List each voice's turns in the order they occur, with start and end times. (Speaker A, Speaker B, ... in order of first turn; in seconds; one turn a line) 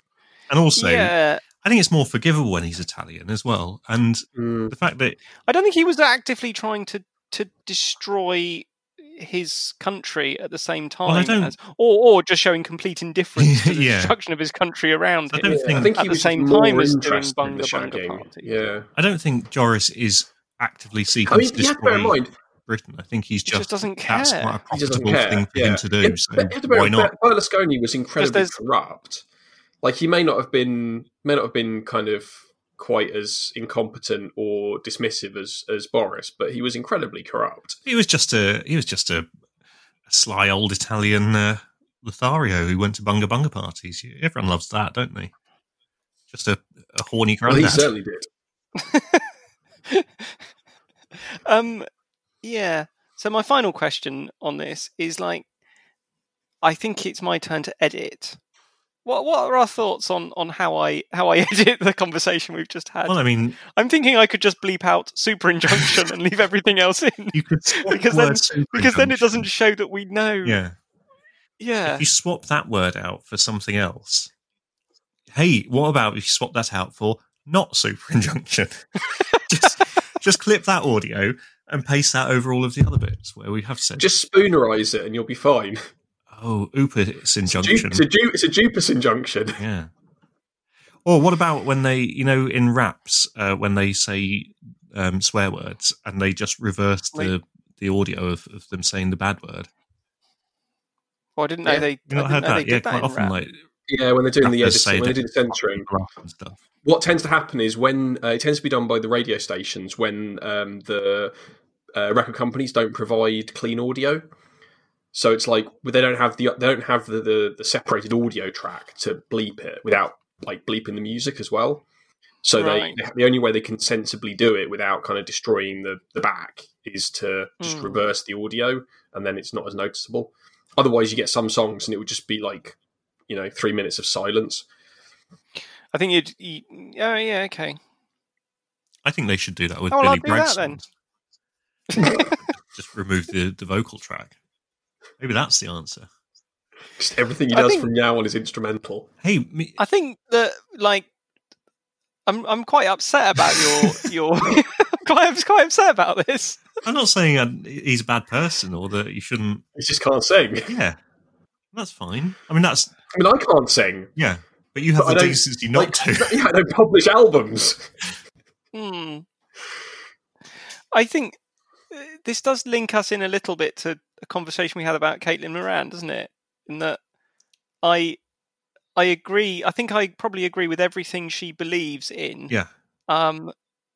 Speaker A: 0.5-5.2
Speaker B: 0.8-1.4
Speaker C: 4.3-4.7
Speaker B: 5.5-18.5
Speaker A: 11.1-11.5
Speaker A: 13.4-14.1
Speaker A: 15.3-15.9
Speaker C: 15.4-18.9
Speaker A: 18.9-27.1
Speaker C: 21.3-22.3
Speaker B: 23.5-24.6
Speaker C: 24.7-29.2
Speaker B: 28.2-28.5
Speaker C: 29.8-37.8
Speaker A: 37.9-39.3
Speaker A: 40.1-45.3
Speaker A: 46.3-47.9
Speaker C: 47.5-48.3
Speaker B: 48.8-49.3
Speaker B: 49.9-50.4
Speaker B: 51.2-51.9
Speaker B: 52.4-55.4
Speaker B: 56.6-58.4
Speaker B: 59.0-70.6
Speaker A: 63.0-63.6
Speaker A: 67.3-69.5
Speaker A: 70.4-70.8
Speaker B: 71.6-72.0
Speaker A: 71.8-74.3
Speaker A: 75.3-84.1
Speaker C: 84.0-85.8
Speaker A: 86.3-88.0
Speaker C: 87.5-89.6
Speaker A: 89.6-89.9
Speaker A: 91.0-99.7
Speaker B: 101.4-103.3
Speaker A: 102.0-103.6
Speaker C: 103.9-105.9
Speaker A: 104.4-106.6
Speaker C: 106.8-111.3
Speaker C: 111.9-114.2
Speaker C: 115.1-121.8
Speaker C: 122.4-132.8
Speaker B: 122.5-123.0
Speaker B: 127.6-128.0
Speaker C: 133.3-134.6
Speaker B: 135.9-137.8
Speaker A: 139.0-140.9
Speaker B: 139.9-140.8
Speaker B: 141.9-142.3
Speaker A: 142.5-144.3
Speaker A: 145.2-146.1
Speaker C: 147.0-149.1
Speaker B: 147.5-147.9
Speaker A: 149.2-149.8
Speaker B: 149.8-151.1
Speaker B: 152.3-156.6
Speaker A: 156.8-159.6
Speaker C: 159.8-160.7
Speaker A: 160.7-161.0
Speaker A: 161.7-162.9
Speaker C: 163.1-164.1
Speaker A: 164.2-166.4
Speaker C: 165.0-167.9
Speaker B: 168.7-169.2
Speaker B: 170.9-171.3
Speaker B: 171.9-177.0
Speaker B: 177.8-178.2
Speaker B: 178.9-182.5
Speaker B: 183.1-183.5